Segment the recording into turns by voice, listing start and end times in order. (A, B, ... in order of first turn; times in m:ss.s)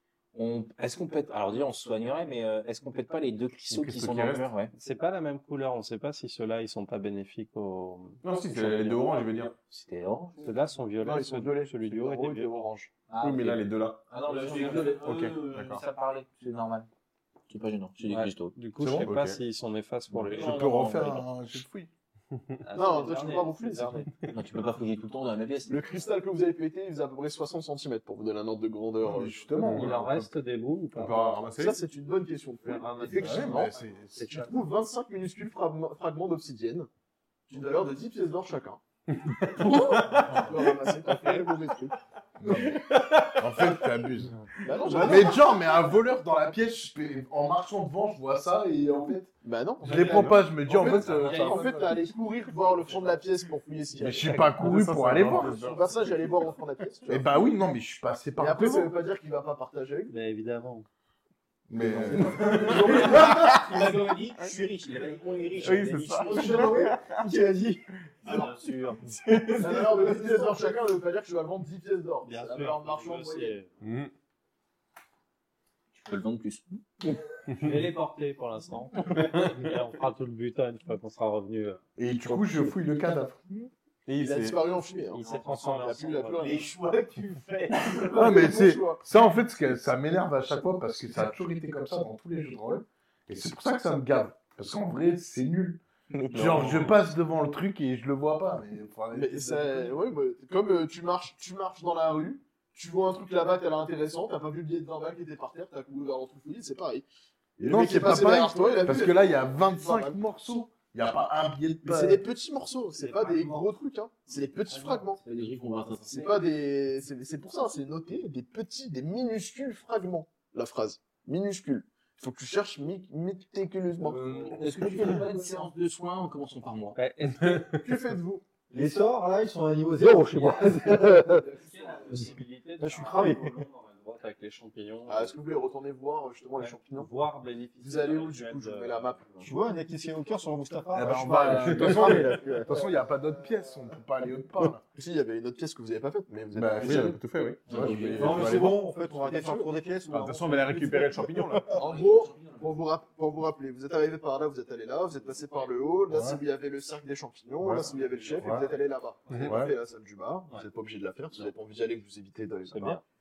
0:00.3-0:04.7 A
0:03.7-0:04.5 B
0:04.7-0:09.0 C
0:08.2-0:09.6 B
0:09.7-0:10.5 A
0:10.4-0:12.6 C
0:11.0-0:12.9 D
0:13.1-0:16.9 A
0:13.2-0:14.0 B
0:14.3-0:14.9 C
0:14.8-0:15.8 B
0:17.5-0:18.5 A
0:18.1-0:21.2 C
0:18.8-0:19.4 B
0:20.3-0:21.9 E
0:20.3-0:21.2 A
0:22.6-0:24.1 C
0:22.7-0:24.1 D
0:24.3-0:26.0 A
0:25.7-0:29.5 D
0:29.0-0:30.3 E
0:29.6-0:29.9 B
0:29.6-0:31.4 C
0:30.9-0:31.8 B
0:31.6-0:36.9 D
0:32.7-0:33.5 C
0:33.0-0:34.6 E
0:37.5-0:38.8 D
0:39.4-0:41.9 D
0:42.4-0:44.4 E
0:44.6-0:45.7 D
0:45.0-0:52.0 E
0:49.4-0:57.4 D
0:50.8-0:51.7 C
0:54.0-0:55.8 E
0:54.2-0:55.5 C
0:54.6-0:56.2 B
0:57.1-0:58.9 E
0:58.4-1:00.1 D
1:00.1-1:00.9 C
1:01.7-1:03.1 E
1:01.8-1:03.6 D
1:02.9-1:06.8 A
1:05.6-1:07.0 B
1:06.2-1:07.0 D
1:06.5-1:07.8 F
1:08.2-1:09.0 C
1:08.3-1:08.9 A
1:09.0-1:10.6 F
1:09.6-1:13.5 D
1:12.2-1:13.7 C
1:13.8-1:14.1 B
1:16.0-1:16.8 A
1:17.5-1:21.8 C
1:22.0-1:23.7 E
1:24.0-1:24.6 B
1:24.2-1:26.6 D
1:25.1-1:26.6 C
1:26.4-1:28.2 A
1:27.9-1:29.0 D
1:28.1-1:40.0 E
1:36.1-1:36.9 A
1:36.3-1:36.9 C
1:39.1-1:47.0 D
1:47.6-1:52.2 E
1:47.6-1:50.2 D
1:51.8-1:55.2 D
1:53.0-1:53.7 C
1:54.7-1:55.1 C
1:55.2-1:56.4 A
1:56.0-2:05.2 D
2:04.1-2:07.0 A
2:06.9-2:07.7 C
2:07.7-2:08.4 D
2:08.7-2:11.4 F
2:10.6-2:12.3 D
2:11.5-2:15.4 C
2:12.8-2:13.6 F
2:15.1-2:17.1 D
2:16.6-2:19.0 C
2:17.8-2:19.5 D
2:19.4-2:22.9 F
2:20.9-2:24.8 E
2:21.7-2:22.1 D
2:24.9-2:27.2 D
2:26.5-2:28.8 E
2:26.8-2:28.0 B
2:27.7-2:28.4 A
2:27.8-2:29.6 D
2:28.1-2:31.8 F
2:30.1-2:31.7 B
2:31.7-2:42.9 D
2:31.7-2:32.7 A
2:36.1-2:36.4 E
2:38.4-2:38.7 E
2:39.3-2:39.7 B
2:39.4-2:39.8 E
2:42.7-2:43.0 C